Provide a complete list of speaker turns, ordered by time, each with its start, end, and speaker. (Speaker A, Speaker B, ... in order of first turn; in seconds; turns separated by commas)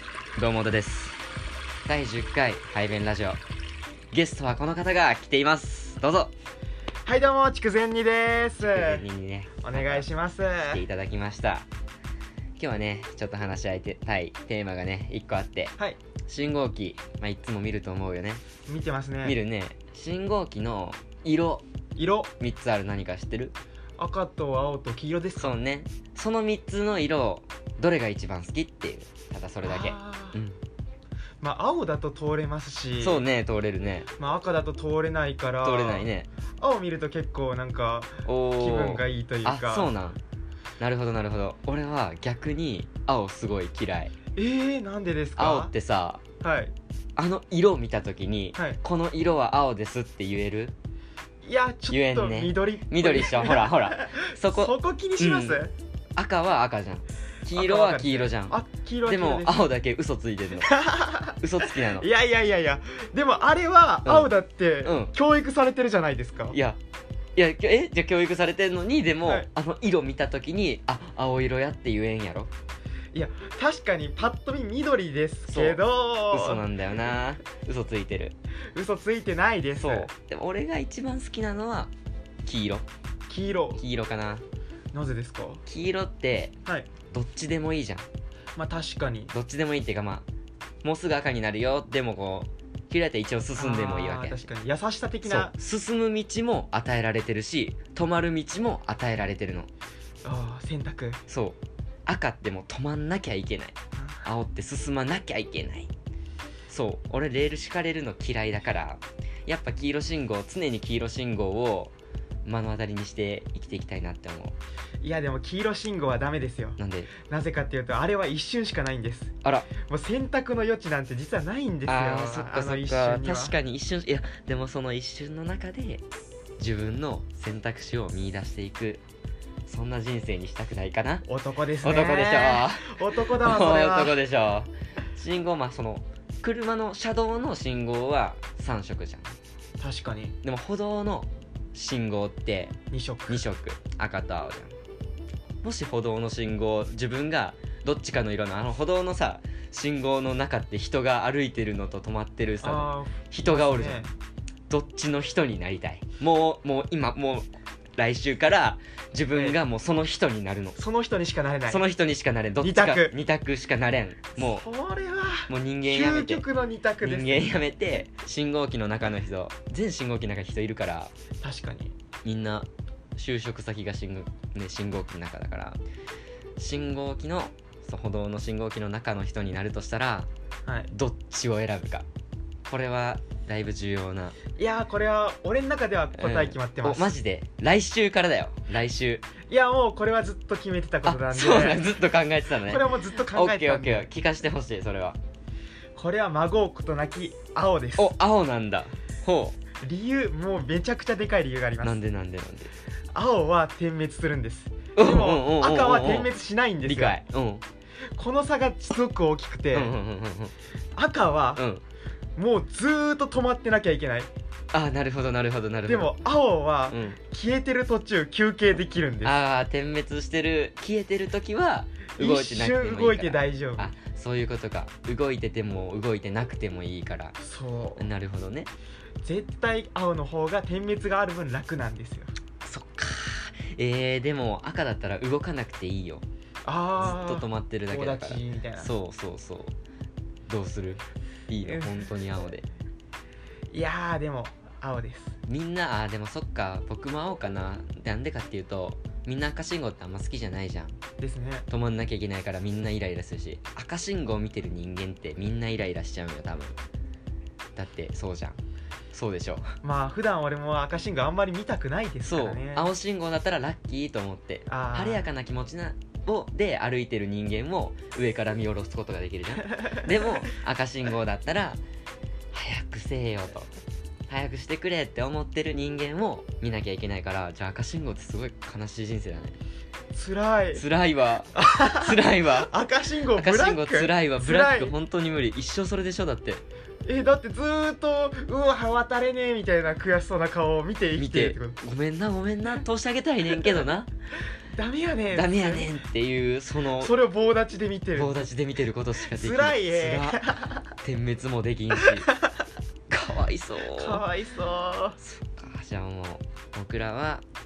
Speaker A: 0.4-1.2, Speaker A: 1.9-3.4, Speaker A: 4.1-6.3, Speaker B: 7.0-9.1, Speaker A: 8.6-10.1, Speaker B: 9.6-10.8, Speaker A: 10.7-11.7, Speaker A: 12.6-18.4, Speaker B: 18.7-19.4, Speaker A: 19.2-21.6, Speaker B: 22.0-22.3, Speaker A: 22.4-23.6, Speaker B: 24.0-25.6, Speaker A: 25.4-30.6, Speaker B: 29.6-30.4, Speaker B: 31.4-33.2, Speaker A: 33.0-34.1, Speaker B: 34.2-36.1, Speaker A: 35.6-36.3, Speaker B: 36.6-39.9, Speaker A: 38.2-40.2, Speaker A: 40.8-44.2, Speaker B: 44.4-45.7, Speaker A: 45.4-46.2, Speaker B: 46.4-46.7, Speaker A: 47.2-50.8, Speaker B: 51.4-55.7, Speaker A: 51.9-55.6, Speaker A: 56.2-60.7, Speaker B: 57.5-59.7, Speaker B: 60.6-66.6, Speaker A: 61.4-62.1, Speaker A: 64.0-64.3, Speaker A: 64.8-65.1, Speaker A: 66.5-66.8, Speaker A: 67.4-72.5, Speaker B: 73.1-76.7, Speaker A: 75.5-75.8, Speaker A: 76.3-78.3, Speaker B: 78.7-80.1, Speaker A: 79.8-81.9, Speaker A: 82.5-82.9, Speaker B: 83.3-83.8, Speaker A: 83.8-84.4, Speaker B: 84.9-85.6, Speaker A: 85.7-86.5, Speaker A: 87.1-88.1, Speaker B: 88.6-89.3, Speaker A: 89.3-90.3, Speaker A: 90.8-94.4, Speaker B: 93.6-95.5, Speaker A: 95.2-99.7, Speaker B: 100.2-101.2, Speaker A: 101.3-105.9, Speaker B: 104.0-104.3, Speaker A: 106.7-111.9, Speaker A: 112.5-114.6, Speaker B: 115.0-123.6, Speaker A: 116.8-117.1, Speaker A: 119.4-119.7, Speaker A: 121.9-126.0, Speaker A: 126.6-129.0, Speaker A: 129.7-131.3, Speaker B: 131.2-134.2, Speaker A: 131.8-139.3, Speaker B: 139.8-140.3, Speaker A: 140.4-142.8, Speaker B: 142.9-143.4, Speaker A: 143.3-144.7, Speaker A: 145.6-154.1, Speaker B: 152.6-154.1, Speaker A: 154.7-160.8, Speaker B: 160.8-161.8, Speaker A: 161.7-164.7, Speaker B: 162.6-163.1, Speaker B: 164.4-167.6, Speaker A: 165.5-166.4, Speaker A: 167.0-171.1, Speaker B: 171.4-171.9, Speaker A: 172.2-175.8, Speaker A: 176.6-180.3, Speaker B: 180.7-180.9, Speaker A: 180.9-182.1, Speaker A: 182.7-184.4, Speaker B: 184.6-187.1, Speaker A: 186.2-189.2, Speaker B: 189.5-191.9, Speaker A: 191.1-195.2, Speaker B: 192.6-194.1, Speaker B: 195.9-198.1, Speaker A: 198.0-199.6, Speaker B: 199.8-202.0, Speaker A: 201.8-202.7, Speaker B: 203.1-207.2, Speaker A: 205.0-206.3, Speaker A: 206.9-207.6, Speaker B: 208.2-209.9, Speaker A: 209.7-210.5, Speaker B: 211.0-211.6, Speaker A: 211.6-211.8, Speaker B: 212.4-214.3, Speaker A: 214.7-216.2, Speaker B: 215.9-219.4, Speaker A: 216.9-217.2, Speaker A: 219.2-227.4, Speaker B: 222.2-223.9, Speaker B: 227.4-228.1, Speaker A: 228.0-228.7, Speaker B: 229.2-232.3, Speaker A: 232.6-236.2, Speaker B: 236.7-238.9, Speaker A: 237.0-239.8, Speaker A: 240.5-242.7, Speaker B: 241.6-242.1, Speaker B: 243.7-245.4, Speaker A: 245.4-251.0, Speaker B: 251.2-251.7, Speaker A: 251.7-256.8, Speaker A: 257.8-258.6, Speaker A: 259.1-259.7, Speaker B: 259.8-262.9, Speaker A: 262.2-271.8, Speaker B: 264.7-265.3, Speaker A: 272.5-273.7, Speaker A: 274.3-279.6, Speaker B: 280.1-280.8, Speaker A: 280.8-282.7, Speaker B: 281.6-284.9, Speaker A: 283.4-286.6, Speaker B: 287.1-291.8, Speaker A: 291.2-294.1, Speaker B: 294.7-295.9, Speaker A: 295.3-297.1, Speaker B: 297.0-298.5, Speaker A: 298.1-300.4, Speaker B: 299.3-300.8, Speaker A: 301.0-302.3, Speaker A: 303.1-304.2, Speaker B: 303.9-305.2, Speaker A: 305.2-307.4